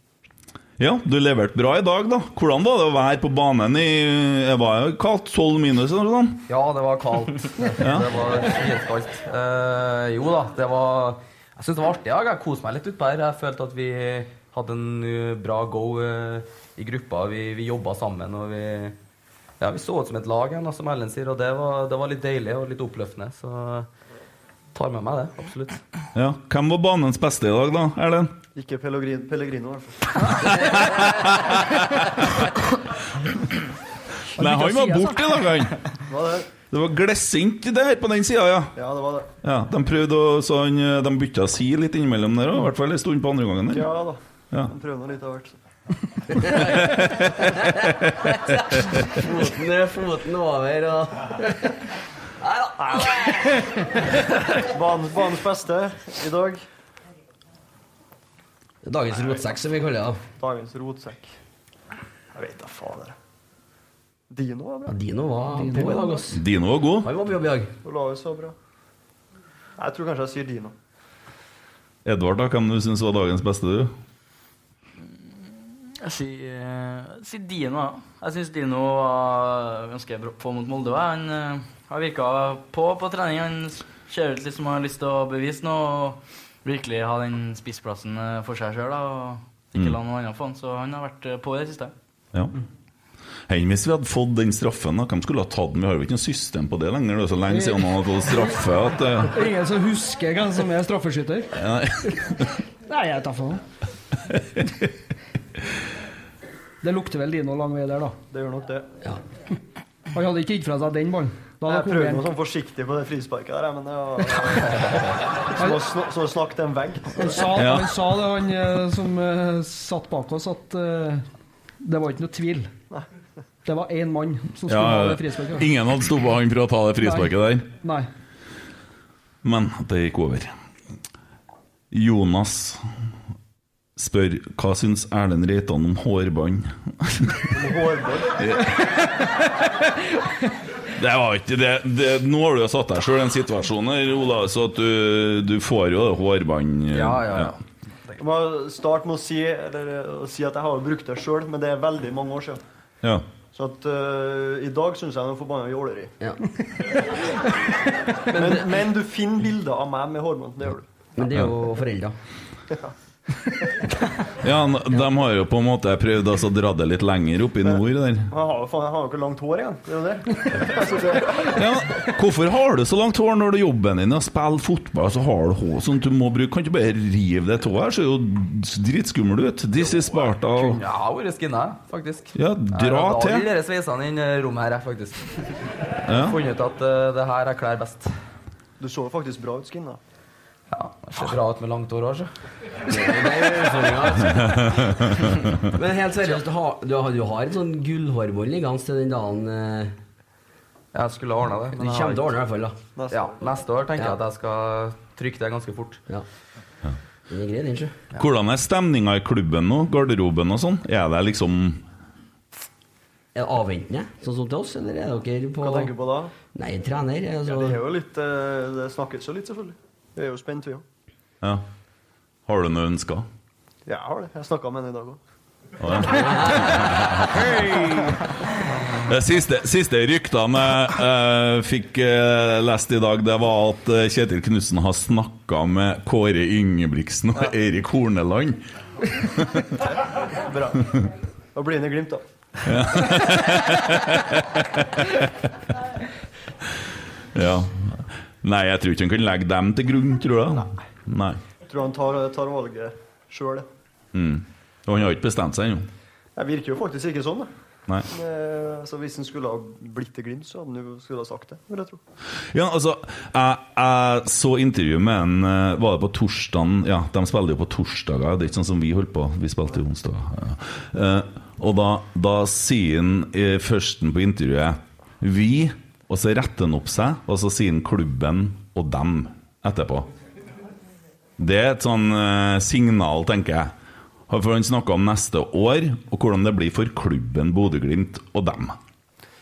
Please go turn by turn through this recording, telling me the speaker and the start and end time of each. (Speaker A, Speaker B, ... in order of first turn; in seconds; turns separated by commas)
Speaker A: 0.8-6.4, Speaker B: 6.5-18.9, Speaker A: 7.8-8.1, Speaker B: 19.6-23.9, Speaker B: 24.7-25.8, Speaker A: 26.1-28.3, Speaker C: 28.5-31.0, Speaker A: 30.4-31.9, Speaker D: 34.4-35.2, Speaker A: 34.4-35.8, Speaker C: 36.1-36.5, Speaker A: 36.7-38.7, Speaker C: 38.8-39.3, Speaker A: 39.4-43.9, Speaker C: 43.7-45.6, Speaker E: 46.4-51.8, Speaker A: 46.4-47.9, Speaker E: 52.4-53.3, Speaker C: 52.8-53.2, Speaker C: 54.6-56.6, Speaker E: 58.8-60.2, Speaker C: 60.4-61.3, Speaker C: 62.3-63.1, Speaker C: 64.3-64.9, Speaker E: 64.9-66.4, Speaker D: 65.5-66.2, Speaker A: 66.3-67.1, Speaker E: 67.0-67.7, Speaker C: 67.8-68.5, Speaker C: 69.8-70.7, Speaker A: 72.0-73.9, Speaker F: 76.0-91.9, Speaker A: 93.5-99.3, Speaker D: 97.5-98.6, Speaker D: 99.3-101.5, Speaker A: 101.6-102.5, Speaker D: 102.9-103.6, Speaker D: 106.8-108.2, Speaker C: 108.3-108.9, Speaker D: 110.1-112.3, Speaker C: 111.7-117.4, Speaker D: 115.6-115.8, Speaker D: 117.2-121.2, Speaker A: 117.5-118.0, Speaker D: 121.8-122.7, Speaker D: 123.6-125.7, Speaker A: 124.7-127.7, Speaker D: 127.0-128.1, Speaker A: 129.4-130.5, Speaker A: 131.9-132.8, Speaker A: 134.0-137.4, Speaker C: 137.5-138.4, Speaker A: 138.4-139.3, Speaker A: 140.9-147.5, Speaker E: 146.9-147.5, Speaker C: 148.2-152.6, Speaker C: 153.5-156.1, Speaker E: 158.3-158.7, Speaker C: 158.3-160.9, Speaker E: 161.2-162.2, Speaker A: 164.4-168.3, Speaker C: 167.6-171.6, Speaker A: 171.5-180.8, Speaker B: 179.8-185.5, Speaker A: 182.3-183.5, Speaker A: 186.1-186.4, Speaker B: 186.1-188.1, Speaker C: 188.8-190.0, Speaker B: 190.7-192.3, Speaker E: 192.9-194.6, Speaker E: 195.7-199.9, Speaker B: 200.9-202.4, Speaker E: 201.8-202.8, Speaker C: 202.9-203.3, Speaker B: 203.1-206.0, Speaker E: 207.3-207.9, Speaker A: 208.2-211.8, Speaker E: 213.3-215.9, Speaker C: 215.6-216.3, Speaker E: 216.5-217.8, Speaker C: 217.4-220.8, Speaker A: 222.5-223.3, Speaker C: 223.8-225.2, Speaker A: 225.8-227.9, Speaker E: 226.0-227.2, Speaker A: 229.0-239.7, Speaker C: 240.4-240.9, Speaker C: 241.5-242.2, Speaker A: 242.6-245.3, Speaker A: 247.3-251.4, Speaker C: 251.7-253.7, Speaker A: 254.1-255.9, Speaker C: 256.4-257.5, Speaker C: 258.1-262.0, Speaker A: 262.5-280.1, Speaker A: 281.4-283.7, Speaker A: 284.3-288.8